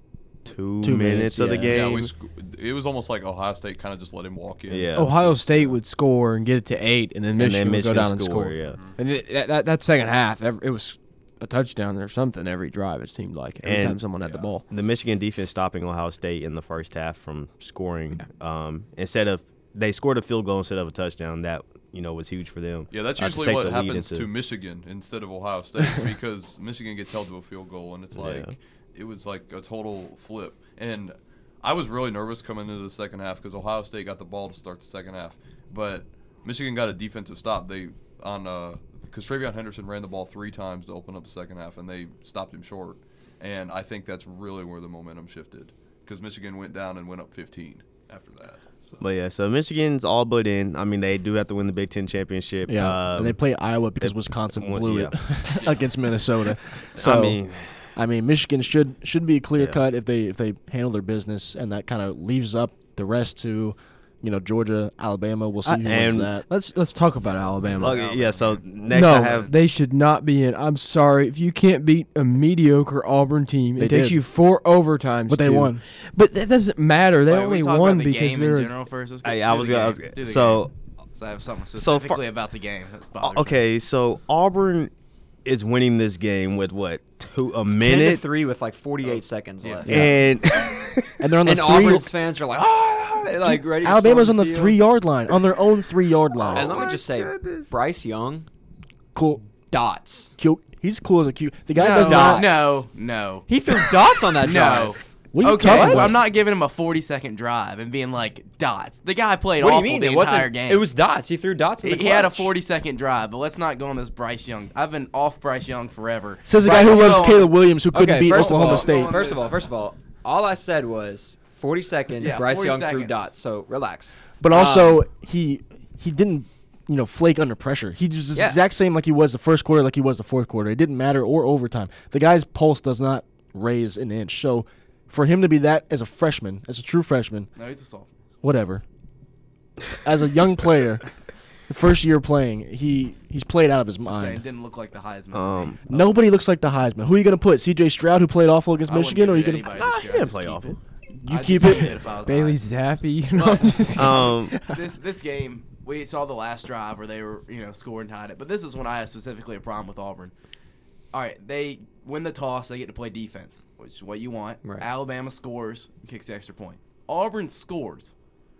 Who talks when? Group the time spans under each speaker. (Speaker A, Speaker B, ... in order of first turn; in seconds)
Speaker A: 0.4-2.1, 4.7-5.1, 7.4-8.8, 13.6-14.0, 14.7-24.3, 28.1-28.6, 49.0-53.4, 54.0-55.1, 56.9-57.9, 65.8-66.3, 67.8-69.5, 79.2-80.7, 81.8-82.2, 83.2-84.9, 85.4-88.2, 89.8-91.1, 96.4-97.7, 145.3-145.8, 149.7-150.8, 153.9-154.6
Speaker B: 0.8-1.8, 52.7-57.4, 57.9-66.5, 73.8-74.2, 75.3-75.8, 89.9-90.2, 91.2-92.1, 93.4-96.8, 99.1-99.4, 100.4-102.5, 105.3-106.2, 116.4-119.2, 124.4-137.5, 138.4-138.8, 140.0-141.1, 141.7-144.4, 145.9-150.3, 151.2-152.3
Speaker C: 1.6-5.8, 8.7-9.0, 22.9-49.0
Speaker D: 4.9-14.6, 65.6-68.0, 68.9-78.7, 152.2-154.8
Speaker E: 67.7-68.6, 77.2-83.6, 101.8-103.8, 104.4-110.8, 111.8-117.5, 118.2-119.5, 122.2-123.2, 137.6-138.1, 144.1-146.0, 148.9-152.6, 153.3-160.3, 161.1-168.1
Speaker F: 87.7-90.2, 91.4-94.8, 96.5-98.5, 99.7-100.3, 101.8-102.8, 103.5-106.1, 109.6-112.5, 116.6-117.2, 117.9-125.0, 128.3-128.6